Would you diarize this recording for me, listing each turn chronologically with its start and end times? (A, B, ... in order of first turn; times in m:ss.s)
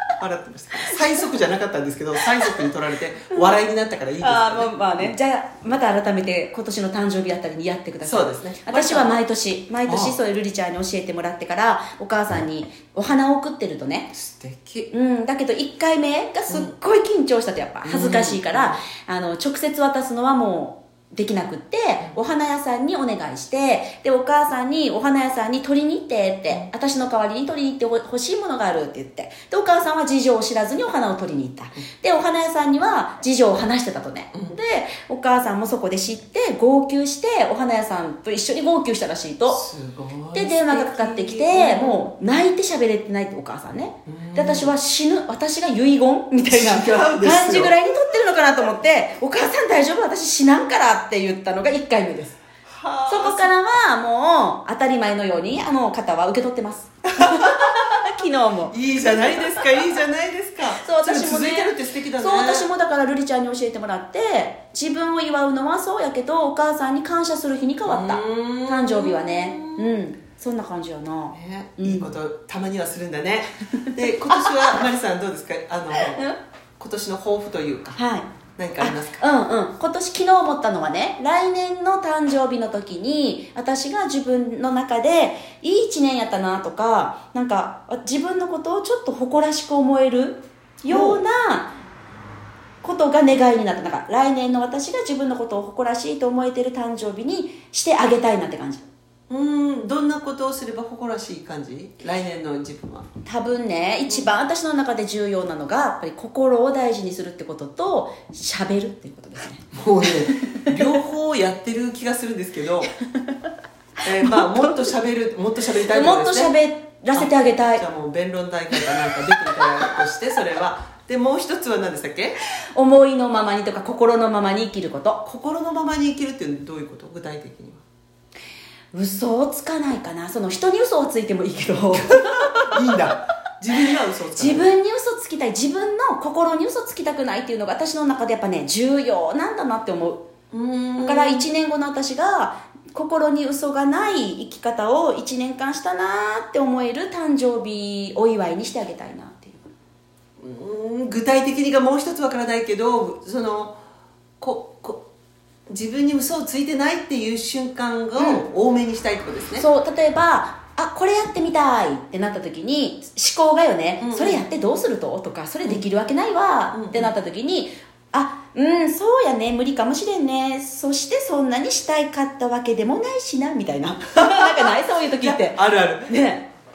0:00.2-0:05.2 A
0:00.9-0:01.4 B
0:04.2-0:14.1 B
0:08.0-0:09.2 A
0:09.9-0:10.2 A
0:14.1-0:14.9 A
0:14.9-0:39.6 B
0:17.8-0:18.8 A
0:39.5-0:42.1 A
0:40.3-0:52.4 B
0:44.1-0:44.8 A
0:46.5-0:47.8 A
0:52.7-0:53.5 A
0:53.1-0:59.7 B
0:57.2-0:58.0 A
0:58.7-1:02.7 A
1:00.8-1:12.1 B
1:07.9-1:10.0 A
1:11.3-1:16.3 A
1:13.8-1:14.8 B
1:16.0-1:16.4 B
1:16.8-1:18.0 A
1:18.0-1:18.3 B
1:18.6-1:19.2 A
1:18.8-1:31.7 B
1:30.9-1:31.2 A
1:32.8-1:38.8 B
1:39.3-1:43.1 A
1:43.2-1:49.7 B
1:49.7-1:52.9 A
1:50.3-1:50.7 B
1:54.0-1:56.5 A
1:54.2-1:54.8 B
1:55.9-1:57.8 B
1:57.1-2:02.4 A
2:02.7-2:05.2 B
2:05.2-2:07.8 A
2:08.9-2:12.8 B
2:12.1-2:14.7 A
2:14.4-2:20.3 B
2:20.5-2:21.5 A
2:21.0-2:29.6 B
2:30.4-2:33.8 A
2:34.4-2:35.0 A
2:35.7-2:39.7 A
2:38.2-2:38.4 B
2:39.6-2:56.4 B
2:44.0-2:44.4 A
2:46.7-2:47.1 A
2:54.0-2:56.2 A